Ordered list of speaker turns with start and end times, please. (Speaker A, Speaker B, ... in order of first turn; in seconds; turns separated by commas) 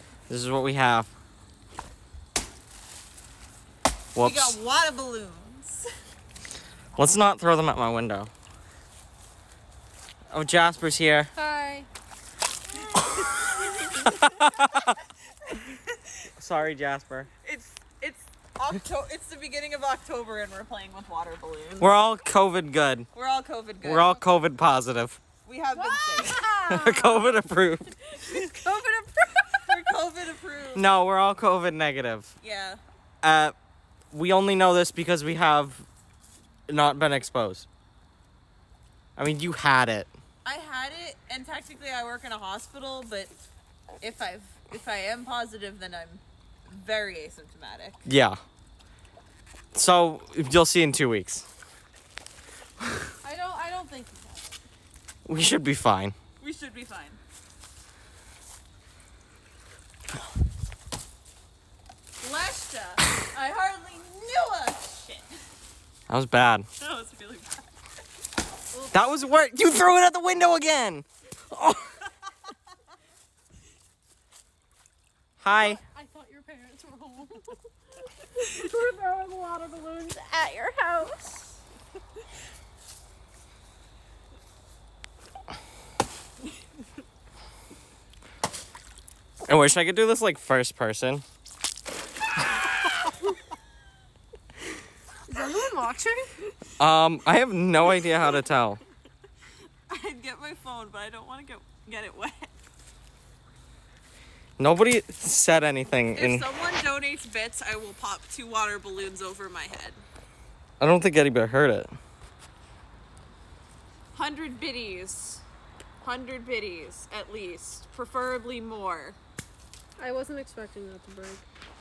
Speaker A: 0.3-1.1, Speaker A: 4.2-4.6, Speaker B: 4.2-5.9, Speaker A: 7.0-8.3, Speaker A: 10.3-11.3, Speaker C: 11.4-11.9, Speaker B: 12.8-14.9, Speaker A: 14.1-14.7, Speaker B: 15.5-15.8, Speaker A: 16.4-17.3, Speaker B: 17.4-21.9, Speaker A: 21.8-23.1, Speaker B: 23.1-24.2, Speaker A: 23.8-25.2, Speaker B: 25.4-26.5, Speaker C: 25.7-27.4, Speaker A: 26.7-27.9, Speaker C: 28.1-29.7, Speaker B: 29.6-30.9, Speaker A: 30.8-32.3, Speaker B: 32.4-32.8, Speaker A: 33.2-33.5, Speaker A: 34.1-35.9, Speaker A: 36.7-37.7, Speaker A: 39.2-40.1, Speaker B: 40.5-43.3, Speaker B: 44.0-48.0, Speaker A: 48.1-48.4, Speaker A: 49.7-51.5, Speaker C: 53.2-54.6, Speaker A: 55.3-56.1, Speaker B: 56.4-57.2, Speaker B: 62.2-65.3, Speaker A: 66.1-66.7, Speaker B: 66.8-67.7, Speaker C: 68.7-69.2, Speaker A: 68.9-71.0, Speaker A: 75.4-75.8, Speaker C: 75.5-77.5, Speaker C: 78.3-81.6, Speaker A: 89.5-91.2, Speaker C: 95.3-96.3, Speaker A: 96.8-98.8, Speaker B: 99.9-102.5, Speaker A: 104.6-106.5, Speaker B: 106.2-110.0, Speaker A: 110.8-111.9, Speaker B: 114.1-115.4, Speaker B: 116.0-119.2, Speaker C: 120.0-121.5